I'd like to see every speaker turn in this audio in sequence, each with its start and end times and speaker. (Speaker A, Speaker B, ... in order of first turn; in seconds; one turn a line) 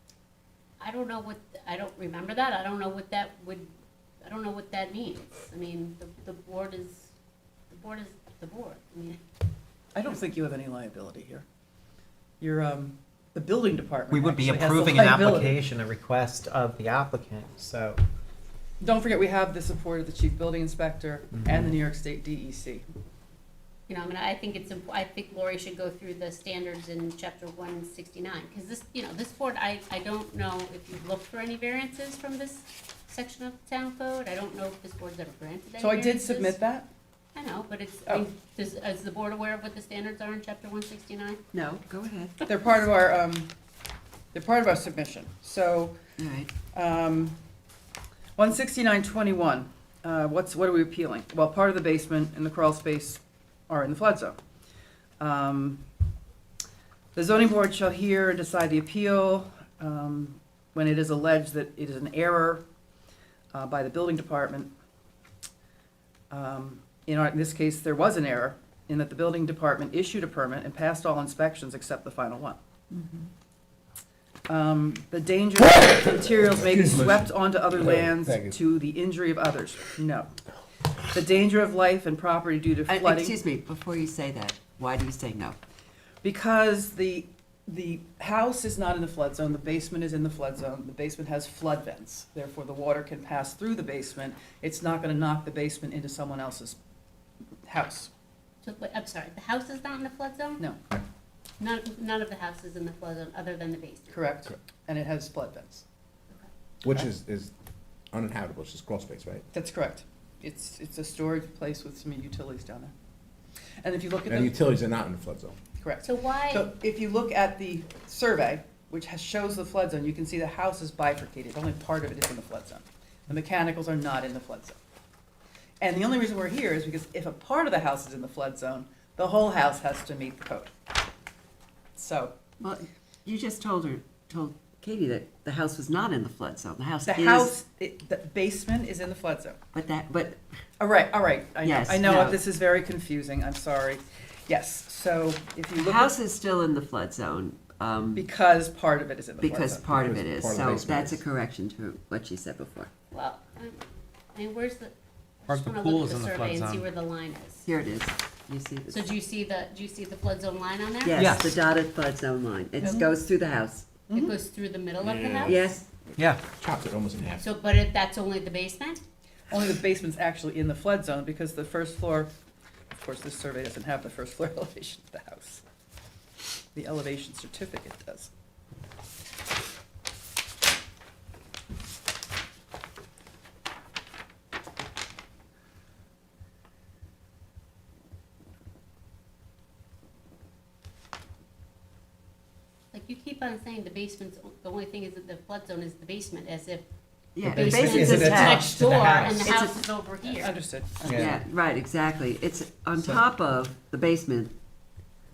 Speaker A: 0.8-3.7
Speaker A: 4.2-7.1
Speaker A: 7.7-9.2
Speaker B: 9.9-11.4
Speaker B: 12.4-15.5
Speaker C: 14.1-18.0
Speaker B: 18.8-22.8
Speaker A: 23.9-36.6
Speaker B: 35.8-36.9
Speaker A: 37.3-41.4
Speaker D: 41.5-42.4
Speaker B: 42.5-43.5
Speaker B: 44.3-46.0
Speaker D: 46.2-46.6
Speaker B: 46.7-47.4
Speaker B: 48.4-54.4
Speaker B: 55.2-55.8
Speaker B: 57.1-62.6
Speaker B: 63.5-64.7
Speaker B: 66.3-72.6
Speaker B: 74.5-80.3
Speaker E: 78.2-78.5
Speaker B: 81.1-83.3
Speaker D: 82.9-85.6
Speaker B: 86.2-96.8
Speaker B: 97.7-98.1
Speaker A: 98.6-100.7
Speaker A: 101.6-104.2
Speaker B: 104.1-105.8
Speaker E: 106.8-107.5
Speaker E: 108.1-109.4
Speaker B: 109.5-112.9
Speaker B: 113.8-114.6
Speaker E: 114.3-115.6
Speaker B: 115.8-124.8
Speaker A: 116.0-116.7
Speaker B: 125.8-130.7
Speaker B: 131.9-132.3
Speaker D: 132.6-137.5
Speaker B: 137.0-139.6
Speaker D: 139.7-140.4
Speaker B: 140.8-146.1
Speaker D: 141.6-142.4
Speaker D: 145.8-148.2
Speaker B: 148.2-149.9
Speaker D: 149.4-152.9
Speaker E: 149.9-151.2
Speaker A: 153.1-153.8
Speaker A: 154.3-154.9
Speaker A: 155.5-157.7
Speaker C: 155.5-156.9
Speaker D: 157.7-159.1
Speaker A: 158.9-161.2
Speaker D: 161.0-164.0
Speaker C: 161.1-161.5
Speaker B: 164.1-164.3
Speaker A: 164.1-165.6
Speaker D: 165.4-165.9
Speaker E: 166.6-167.4
Speaker A: 167.4-169.0
Speaker B: 169.5-172.3
Speaker B: 172.9-175.6
Speaker B: 176.7-178.3
Speaker A: 192.9-196.8
Speaker D: 197.3-198.7
Speaker A: 197.4-200.6
Speaker C: 197.5-199.4
Speaker B: 199.4-199.7
Speaker D: 199.4-199.8
Speaker B: 200.2-201.3
Speaker D: 201.1-204.5